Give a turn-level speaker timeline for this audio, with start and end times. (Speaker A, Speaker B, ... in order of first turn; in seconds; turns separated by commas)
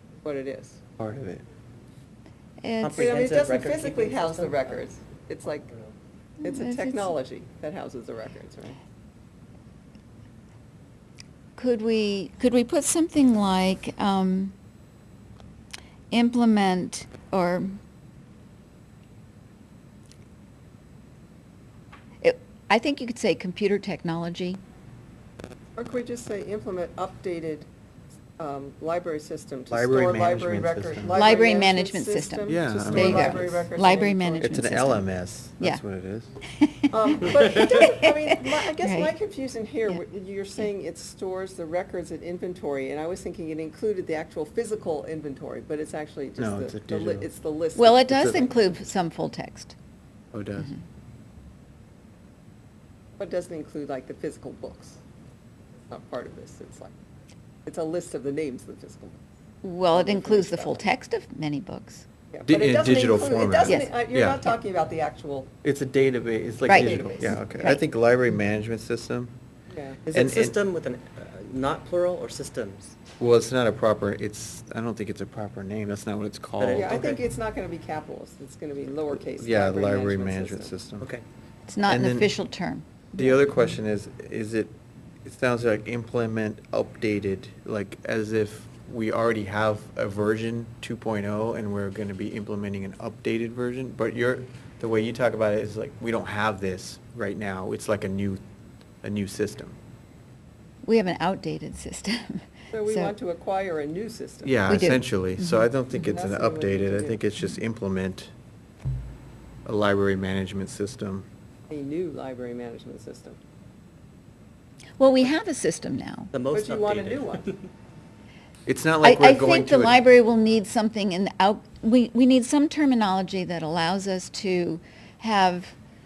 Speaker A: 0.2-0.8, Speaker B: 1.0-1.4, Speaker C: 2.6-3.0, Speaker D: 2.8-4.8, Speaker A: 2.9-5.7, Speaker C: 6.4-7.1, Speaker A: 6.4-8.8, Speaker C: 11.6-14.5, Speaker C: 16.1-17.7, Speaker C: 22.2-24.6, Speaker A: 25.8-27.7, Speaker A: 28.4-34.5, Speaker B: 29.7-31.3, Speaker C: 31.1-35.1, Speaker B: 32.5-33.7, Speaker B: 34.4-36.4, Speaker C: 36.5-38.0, Speaker A: 36.9-48.5, Speaker C: 38.8-39.1, Speaker B: 46.4-47.3, Speaker C: 47.8-49.7, Speaker B: 48.1-48.4, Speaker B: 50.3-50.7, Speaker A: 53.2-55.0, Speaker A: 55.9-56.9, Speaker A: 57.6-59.2, Speaker C: 59.6-62.0, Speaker A: 59.9-60.8, Speaker A: 62.3-65.5, Speaker B: 62.4-64.5, Speaker B: 65.6-69.3, Speaker C: 66.7-67.8, Speaker A: 66.7-67.5, Speaker A: 69.7-70.0, Speaker D: 70.1-72.9, Speaker B: 70.1-70.6, Speaker B: 73.2-76.9, Speaker D: 76.6-77.2, Speaker A: 76.8-80.8, Speaker B: 79.1-81.1, Speaker C: 81.7-83.4, Speaker B: 81.9-82.3, Speaker B: 83.2-98.4, Speaker B: 99.0-99.8, Speaker C: 100.8-103.1, Speaker A: 102.7-104.6, Speaker B: 104.4-108.3, Speaker C: 104.7-105.7, Speaker A: 106.0-107.2, Speaker B: 109.6-111.3, Speaker A: 111.7-113.4, Speaker C: 115.0-116.3, Speaker D: 116.3-117.7, Speaker A: 116.5-117.5, Speaker B: 118.7-120.0, Speaker C: 119.0-125.7